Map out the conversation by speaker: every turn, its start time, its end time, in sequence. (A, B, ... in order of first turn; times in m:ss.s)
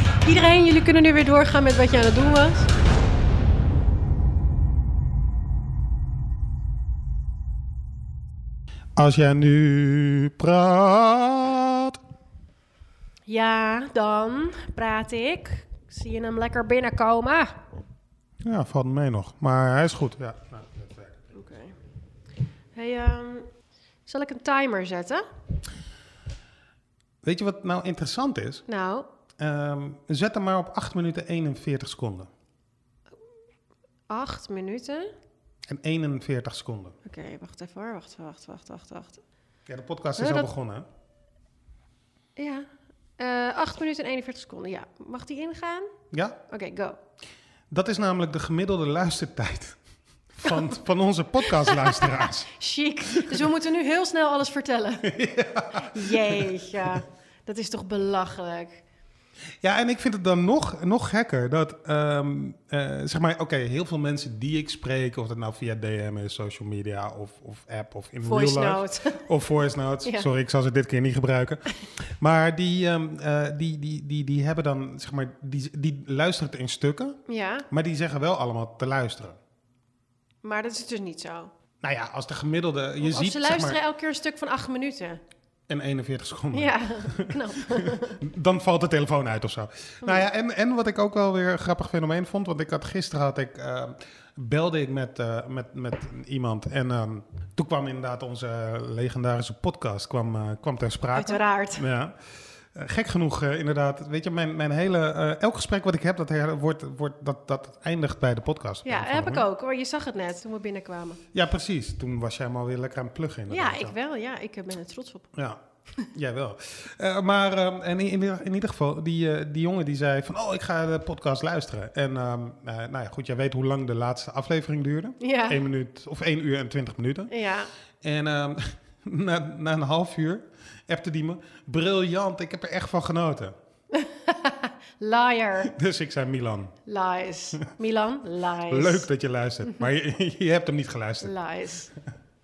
0:00.2-0:02.7 A
0:09.0-0:12.0 B
0:13.3-0:17.6 A
0:18.4-0:21.2 B
0:21.3-0:21.8 A
0:22.7-0:23.5 A
0:24.0-0:25.2 A
0:27.2-0:28.6 B
0:28.7-0:29.1 A
0:29.4-0:32.3 B
0:34.1-0:35.1 A
0:35.7-0:37.0 B
0:37.0-0:39.2 A
0:39.7-0:40.8 B
0:40.2-0:40.5 A
0:42.4-0:42.7 A
0:43.2-0:45.9 A
0:46.1-0:46.4 B
0:46.5-0:47.0 A
0:47.7-0:49.8 B
0:50.3-0:52.5 B
0:51.4-0:55.1 A
0:55.0-0:56.5 B
0:55.8-0:58.8 A
0:59.6-1:17.2 B
1:08.2-1:09.2 A
1:17.2-1:17.7 A
1:17.7-1:19.4 B
1:20.4-1:21.5 A
1:21.8-1:23.8 B
1:23.0-1:25.2 A
1:25.7-1:42.1 B
1:26.5-1:28.2 A
1:41.2-1:41.8 A
1:42.7-1:49.4 B
1:48.8-1:51.2 A
1:51.3-1:53.9 B
1:53.5-1:55.3 A
1:55.3-2:07.3 B
2:05.2-2:05.6 A
2:07.3-2:07.7 A
2:08.0-2:13.5 B
2:13.9-2:15.7 A
2:15.6-2:16.7 B
2:16.8-2:19.1 A
2:18.7-2:21.3 B
2:21.2-2:21.9 A